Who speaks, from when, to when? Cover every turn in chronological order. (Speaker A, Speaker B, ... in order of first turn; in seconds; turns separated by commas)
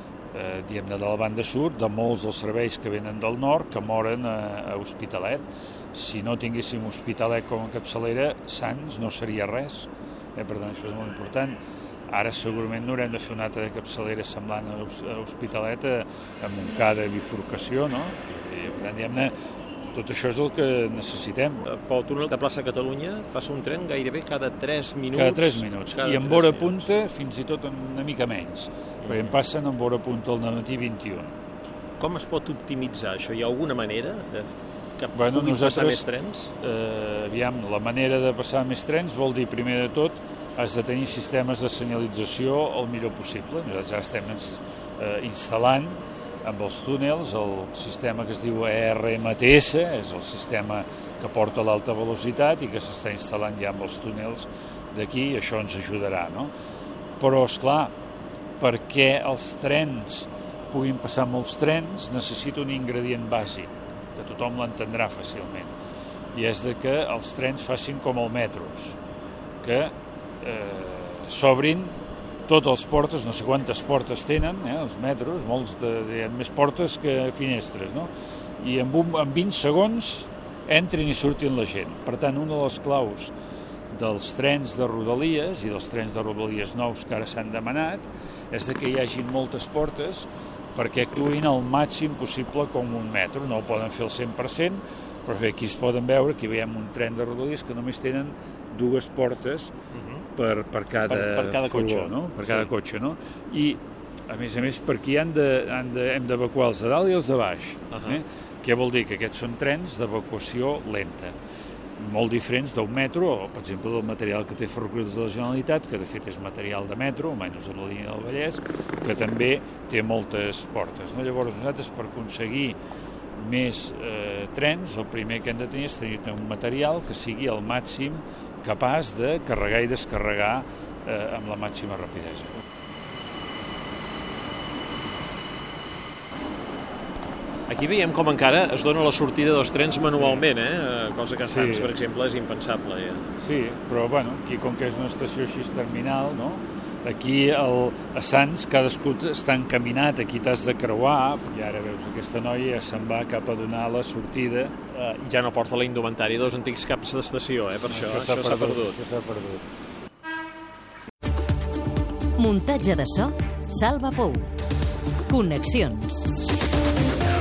Speaker A: 0.3-19.3, Speaker A: 19.9-21.7, Speaker B: 21.6-26.8, Speaker A: 25.1-31.3, Speaker B: 29.0-29.3, Speaker B: 32.0-36.5, Speaker A: 35.1-36.0, Speaker A: 36.6-56.5, Speaker A: 57.2-57.9, Speaker A: 58.6-65.8, Speaker A: 66.3-69.0, Speaker A: 69.6-83.3, Speaker A: 83.9-99.7, Speaker B: 99.9-100.2, Speaker A: 100.4-111.3, Speaker B: 101.1-102.7, Speaker B: 107.9-108.2, Speaker A: 112.0-122.8, Speaker A: 123.3-132.6, Speaker B: 137.7-143.3, Speaker A: 140.2-140.4, Speaker A: 141.4-141.9, Speaker A: 143.4-154.7, Speaker B: 154.9-159.0, Speaker A: 157.9-159.6, Speaker C: 162.4-164.5, Speaker C: 165.3-166.3